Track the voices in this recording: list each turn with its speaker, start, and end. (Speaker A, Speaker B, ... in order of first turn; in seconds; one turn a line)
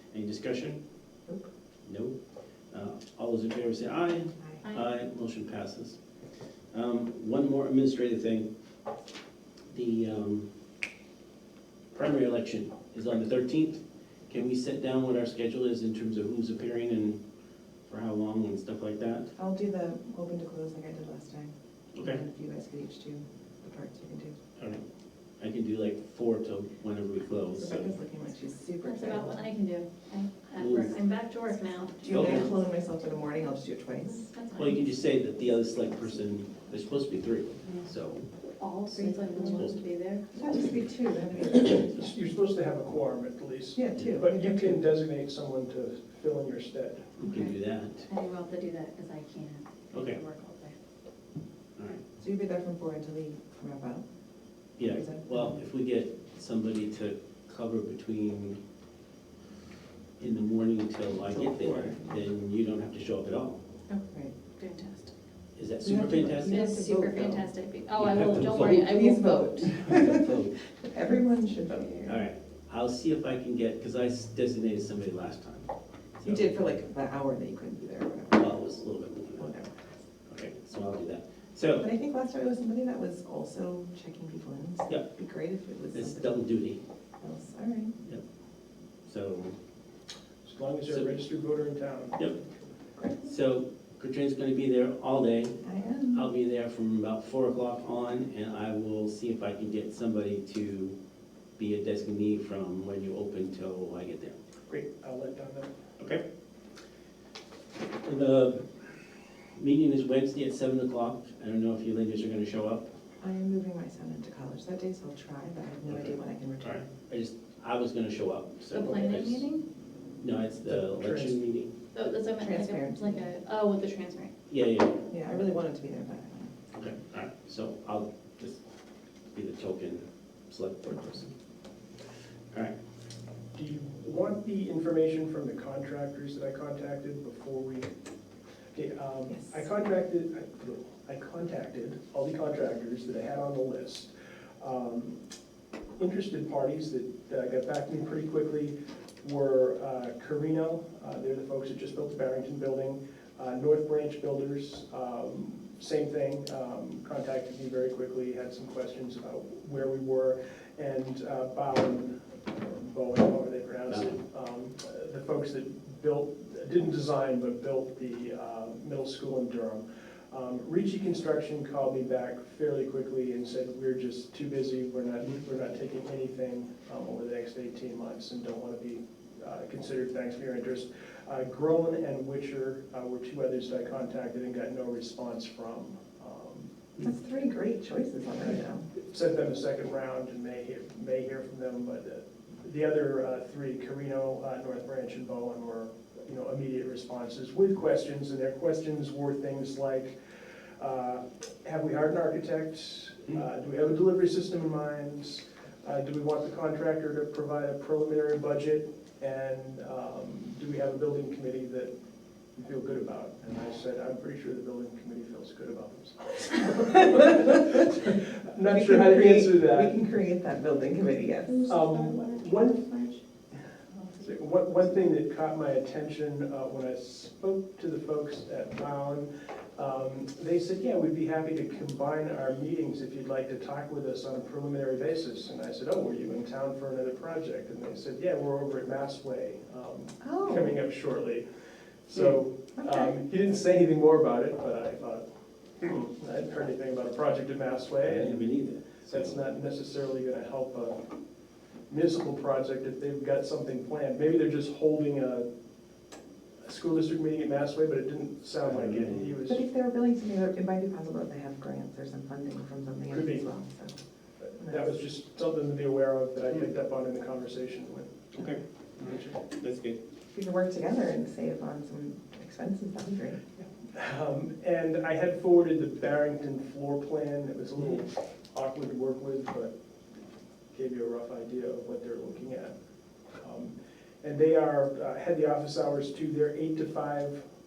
Speaker A: 0.1-0.8
Speaker A: 1.9-2.2
Speaker A: 2.7-6.0
Speaker A: 6.7-8.5
Speaker A: 9.7-10.5
Speaker A: 11.9-17.2
Speaker A: 17.9-19.3
Speaker B: 19.4-24.4
Speaker A: 21.9-22.2
Speaker A: 24.6-24.8
Speaker A: 25.4-27.9
Speaker B: 27.6-29.5
Speaker C: 28.9-32.5
Speaker A: 30.6-30.9
Speaker B: 32.0-34.3
Speaker A: 32.1-32.5
Speaker C: 34.1-35.0
Speaker A: 34.6-38.3
Speaker C: 38.6-40.3
Speaker B: 38.9-39.6
Speaker A: 39.4-39.8
Speaker B: 40.3-41.9
Speaker D: 41.8-47.1
Speaker B: 43.8-45.0
Speaker A: 47.2-48.1
Speaker C: 47.2-47.5
Speaker C: 48.1-49.7
Speaker A: 49.9-50.2
Speaker B: 49.9-50.7
Speaker A: 51.8-52.0
Speaker B: 52.2-54.0
Speaker A: 54.8-58.6
Speaker B: 54.8-55.6
Speaker A: 60.2-63.6
Speaker B: 61.3-62.1
Speaker B: 63.9-64.4
Speaker C: 64.6-65.1
Speaker A: 65.6-66.6
Speaker B: 65.8-67.5
Speaker C: 66.5-69.7
Speaker A: 68.0-68.8
Speaker B: 68.4-72.2
Speaker A: 69.7-70.6
Speaker A: 72.0-76.6
Speaker B: 76.2-78.6
Speaker A: 78.4-79.5
Speaker B: 79.4-79.9
Speaker A: 80.3-81.9
Speaker B: 81.8-86.4
Speaker A: 85.9-86.8
Speaker B: 87.2-88.0
Speaker A: 89.1-89.6
Speaker D: 90.4-92.3
Speaker A: 90.9-91.2
Speaker B: 93.0-93.3
Speaker A: 93.2-101.0
Speaker B: 95.6-96.3
Speaker A: 101.6-104.4
Speaker D: 104.7-105.7
Speaker A: 108.0-108.9
Speaker A: 109.5-112.9
Speaker B: 113.2-116.8
Speaker A: 115.9-119.5
Speaker C: 118.7-119.6
Speaker A: 120.2-121.7
Speaker D: 120.7-121.4
Speaker C: 121.9-124.3
Speaker B: 122.4-123.3
Speaker A: 124.5-125.1
Speaker B: 125.1-126.5
Speaker A: 126.7-128.6
Speaker A: 129.3-131.3
Speaker D: 133.5-137.9
Speaker D: 138.7-145.2
Speaker D: 146.0-186.7
Speaker A: 163.9-164.2
Speaker B: 187.0-188.9
Speaker D: 188.4-200.2
Speaker D: 200.8-211.9
Speaker D: 212.6-220.0
Speaker B: 218.6-222.4
Speaker D: 221.7-223.2
Speaker D: 224.2-241.5
Speaker B: 240.2-240.8
Speaker D: 242.1-245.2
Speaker B: 242.8-243.1
Speaker D: 245.8-251.0
Speaker A: 248.0-249.4
Speaker D: 251.9-255.5
Speaker D: 256.6-259.6
Speaker A: 258.6-259.4
Speaker B: 259.4-264.0
Speaker D: 263.1-263.5
Speaker D: 264.4-268.1
Speaker B: 264.6-264.9
Speaker A: 268.3-270.0
Speaker B: 270.3-273.4
Speaker D: 273.9-279.7
Speaker D: 280.7-282.7
Speaker D: 283.4-287.4